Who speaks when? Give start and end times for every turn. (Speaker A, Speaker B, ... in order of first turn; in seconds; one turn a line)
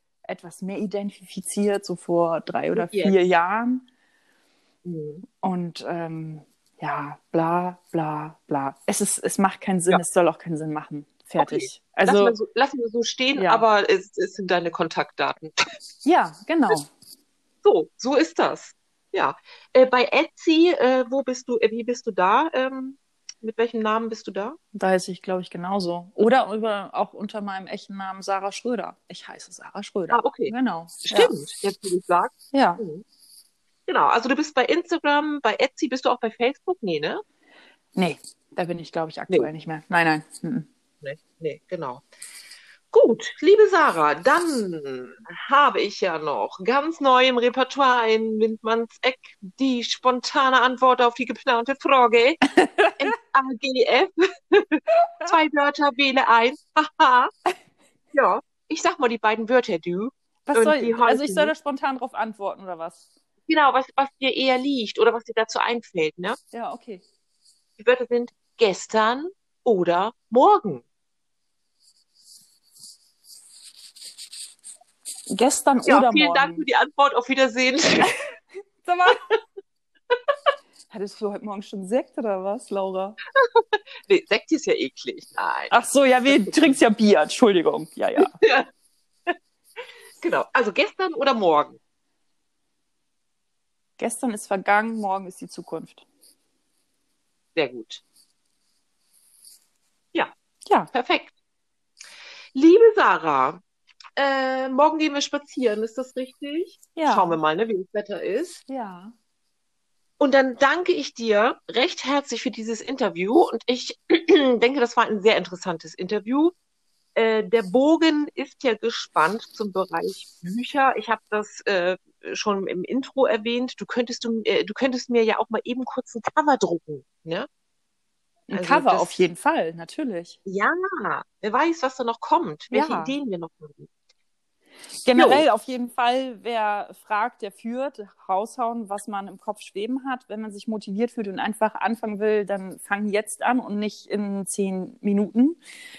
Speaker A: 0.2-3.8
Speaker B: 2.7-3.1
Speaker B: 4.8-5.2
Speaker A: 5.4-12.4
Speaker B: 11.4-15.5
Speaker A: 13.3-13.7
Speaker A: 16.0-16.9
Speaker B: 17.6-24.6
Speaker A: 24.7-31.4
Speaker B: 30.1-30.5
Speaker B: 31.0-33.0
Speaker A: 32.5-32.8
Speaker B: 33.9-37.2
Speaker A: 37.9-40.7
Speaker B: 41.0-42.0
Speaker B: 42.9-52.4
Speaker A: 52.5-53.1
Speaker B: 53.0-57.3
Speaker A: 54.9-55.4
Speaker B: 58.1-61.5
Speaker A: 60.5-63.0
Speaker B: 63.5-66.4
Speaker A: 66.5-67.0
Speaker B: 67.8-70.8
Speaker A: 75.3-76.6
Speaker B: 75.9-78.2
Speaker A: 78.8-79.2
Speaker A: 80.9-83.2
Speaker B: 83.5-85.7
Speaker A: 85.7-88.3
Speaker B: 86.3-86.8
Speaker B: 88.2-88.7
Speaker B: 90.2-91.8
Speaker A: 94.0-96.0
Speaker B: 97.5-98.0
Speaker B: 100.9-101.3
Speaker B: 102.5-103.6
Speaker B: 104.2-108.6
Speaker A: 106.9-107.4
Speaker A: 108.7-109.1
Speaker B: 110.2-116.5
Speaker B: 117.2-127.5
Speaker A: 128.5-130.4
Speaker B: 128.5-129.3
Speaker B: 130.4-133.9
Speaker A: 132.7-133.2
Speaker A: 135.0-145.6
Speaker B: 135.1-135.4